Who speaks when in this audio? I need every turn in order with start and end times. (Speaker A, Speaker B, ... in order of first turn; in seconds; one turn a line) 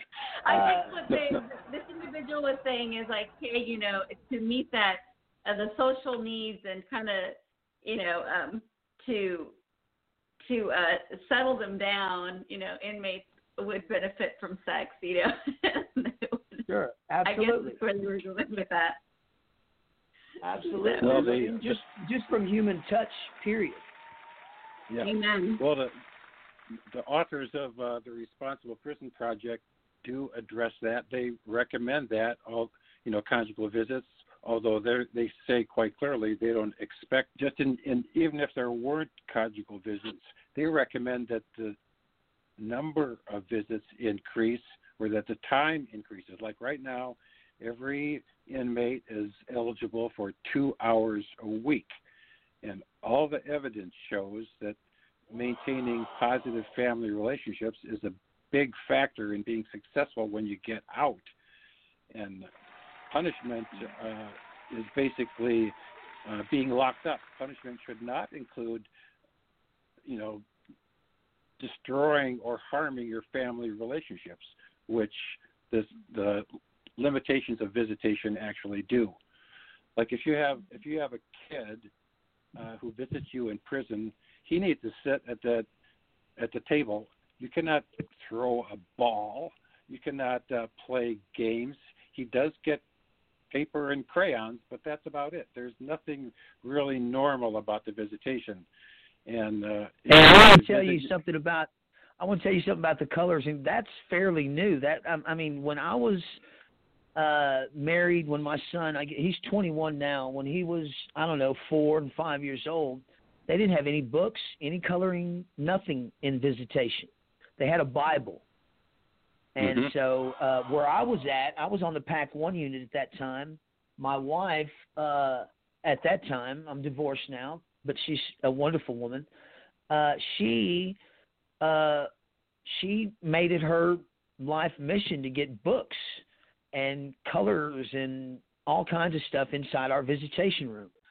Speaker A: 0.4-9.5
Speaker B: 0.5-1.0
Speaker A: 10.4-16.7
Speaker B: 16.7-17.8
Speaker A: 17.2-19.0
Speaker B: 20.4-23.8
Speaker A: 20.7-21.3
Speaker C: 21.0-21.8
Speaker C: 24.9-25.9
Speaker A: 25.0-25.6
Speaker C: 26.9-41.8
Speaker C: 42.6-51.9
Speaker C: 52.6-54.8
Speaker C: 55.3-61.3
Speaker C: 62.1-62.5
Speaker C: 63.1-65.7
Speaker C: 66.2-68.9
Speaker C: 70.0-70.4
Speaker C: 71.6-76.4
Speaker C: 77.0-79.2
Speaker C: 80.0-81.9
Speaker C: 82.5-85.7
Speaker C: 86.4-92.8
Speaker C: 93.5-98.7
Speaker C: 99.2-101.1
Speaker B: 100.1-106.4
Speaker B: 107.2-118.4
Speaker B: 119.5-129.3
Speaker C: 119.6-119.9
Speaker B: 129.9-131.0
Speaker B: 131.6-132.1
Speaker B: 132.6-140.9